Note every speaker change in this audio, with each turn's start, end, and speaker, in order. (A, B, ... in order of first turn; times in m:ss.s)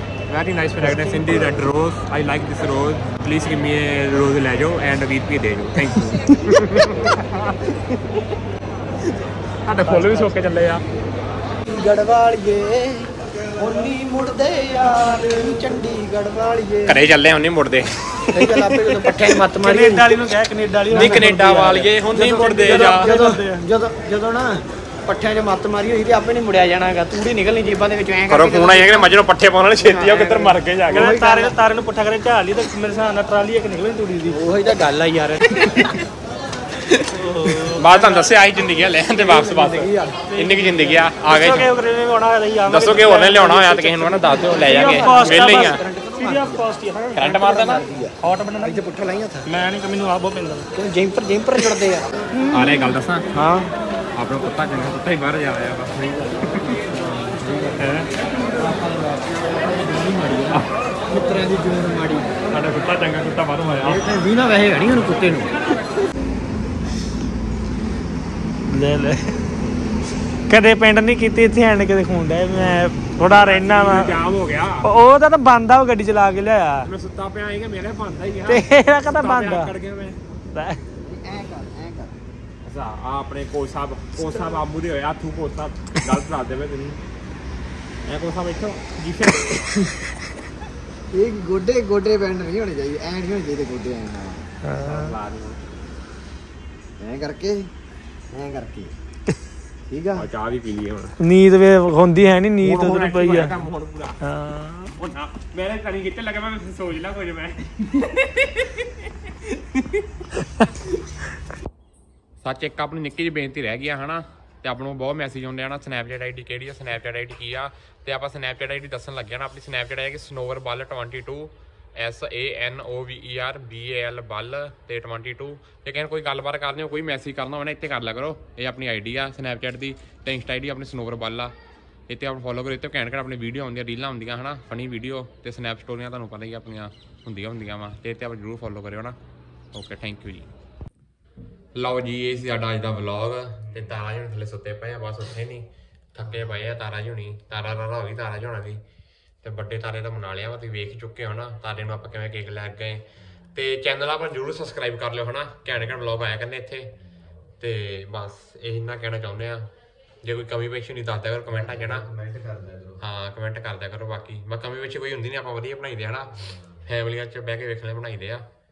0:00.3-0:07.8 A
0:00.8-0:01.5 B
0:09.6-0:10.8 A
0:09.8-0:10.5 B
0:11.6-0:17.0 C
0:16.8-0:18.6 A
0:18.3-0:20.1 C
0:19.6-0:21.9 B
0:20.9-0:23.1 A
0:22.1-0:29.1 C
0:22.9-0:23.6 B
0:28.3-0:31.1 A
0:29.8-0:31.5 C
0:30.9-0:34.4 B
0:34.3-0:35.9 C
0:35.4-0:36.0 A
0:36.8-0:41.7 A
0:37.1-0:38.1 B
0:37.9-0:38.2 C
0:39.1-0:41.1 C
0:41.2-0:43.8 B
0:42.6-0:45.8 A
0:43.6-0:46.7 C
0:44.6-0:47.4 B
0:47.1-0:47.8 A
0:47.3-0:49.4 C
0:48.2-0:48.8 B
0:49.4-0:50.7 B
0:50.7-0:52.0 C
0:52.4-0:52.7 B
0:52.5-0:53.3 A
0:53.3-0:53.7 C
0:54.2-0:56.8 A
0:56.8-0:57.9 C
0:57.8-0:58.0 A
0:58.4-1:02.4 C
1:02.5-1:04.0 A
1:03.8-1:05.5 C
1:08.7-1:09.3 B
1:10.5-1:14.1 B
1:12.6-1:14.8 A
1:14.8-1:16.9 B
1:16.8-1:20.2 A
1:18.5-1:19.7 B
1:20.5-1:20.8 B
1:21.0-1:22.1 C
1:22.6-1:27.0 A
1:28.1-1:29.8 A
1:31.1-1:34.4 C
1:34.6-1:35.1 B
1:34.8-1:35.6 A
1:37.0-1:37.7 C
1:38.3-1:38.9 C
1:39.9-1:40.2 C
1:40.2-1:41.1 A
1:41.2-1:43.5 B
1:42.6-1:44.2 A
1:44.2-1:44.9 B
1:45.0-1:50.0 A
1:52.4-2:11.5 A
2:12.1-2:19.2 A
2:19.7-2:20.5 A
2:21.8-2:28.8 A
2:29.4-2:33.0 A
2:33.5-2:36.9 A
2:37.6-2:39.7 A
2:40.2-2:42.0 A
2:41.5-2:43.0 C
2:43.0-2:46.3 A
2:46.8-2:48.4 A